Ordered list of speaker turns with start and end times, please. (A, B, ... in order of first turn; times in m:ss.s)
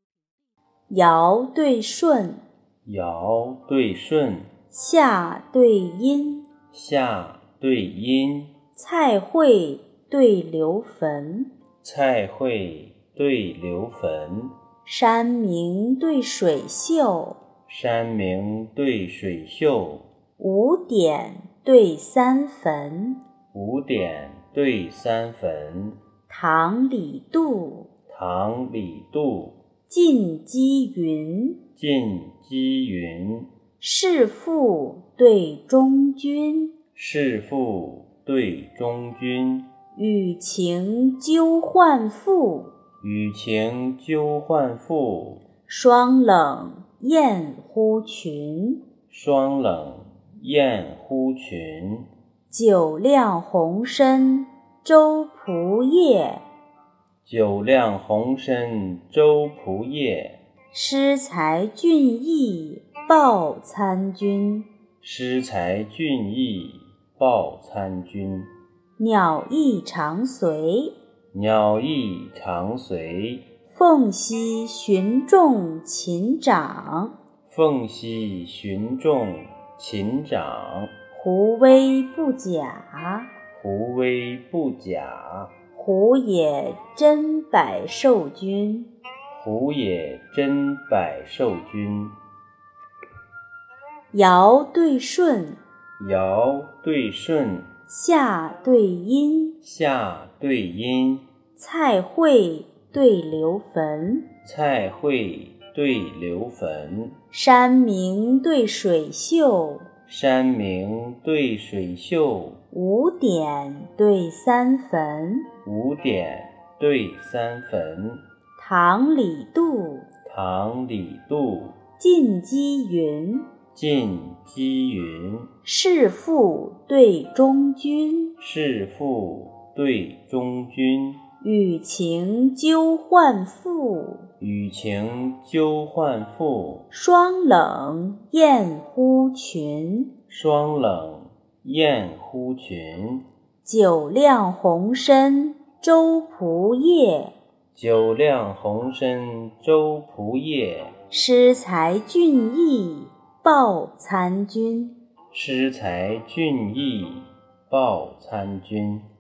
0:00.9-0:02.4 A
0:02.8-0:04.5 B
0:04.7-0:06.5 A
0:06.7-0:08.5 B
0:08.8-0:11.5 A
0:11.8-0:14.5 B
0:14.8-0:17.4 A
0:17.7-0:20.1 B
0:20.4-0:23.2 A
0:23.5-0:26.0 B
0:26.3-0:27.9 A
0:28.1-0:29.6 B
0:29.9-0:31.6 A
0:31.8-0:33.5 B
0:33.8-0:36.7 A
0:37.0-0:39.7 B
0:40.0-0:42.7 A
0:43.0-0:45.4 B
0:45.7-0:48.8 A
0:49.1-0:52.1 B
0:52.5-0:56.4 A
0:57.2-1:00.4 B
1:00.7-1:04.7 A
1:05.0-1:08.5 B
1:09.0-1:10.9 A
1:11.3-1:13.4 B
1:13.7-1:17.1 A
1:17.5-1:20.9 B
1:21.1-1:23.3 A
1:23.6-1:25.5 B
1:25.7-1:28.9 A
1:29.3-1:32.2 B
1:34.1-1:35.6 A
1:36.0-1:37.7 B
1:37.9-1:39.6 A
1:39.6-1:41.3 B
1:41.6-1:44.3 A
1:44.4-1:47.2 B
1:47.3-1:49.9 A
1:50.1-1:52.6 B
1:52.7-1:55.5 A
1:55.6-1:58.2 B
1:58.6-2:00.1 A
2:00.2-2:01.8 B
2:02.0-2:03.5 A
2:03.8-2:05.5 B
2:05.6-2:08.3 A
2:08.4-2:11.2 B
2:11.4-2:14.3 A
2:14.4-2:16.9 B
2:16.9-2:20.1 A
2:20.3-2:23.3 B
2:23.6-2:27.3 A
2:27.8-2:30.9 B
2:31.1-2:35.0 A
2:35.3-2:39.1 B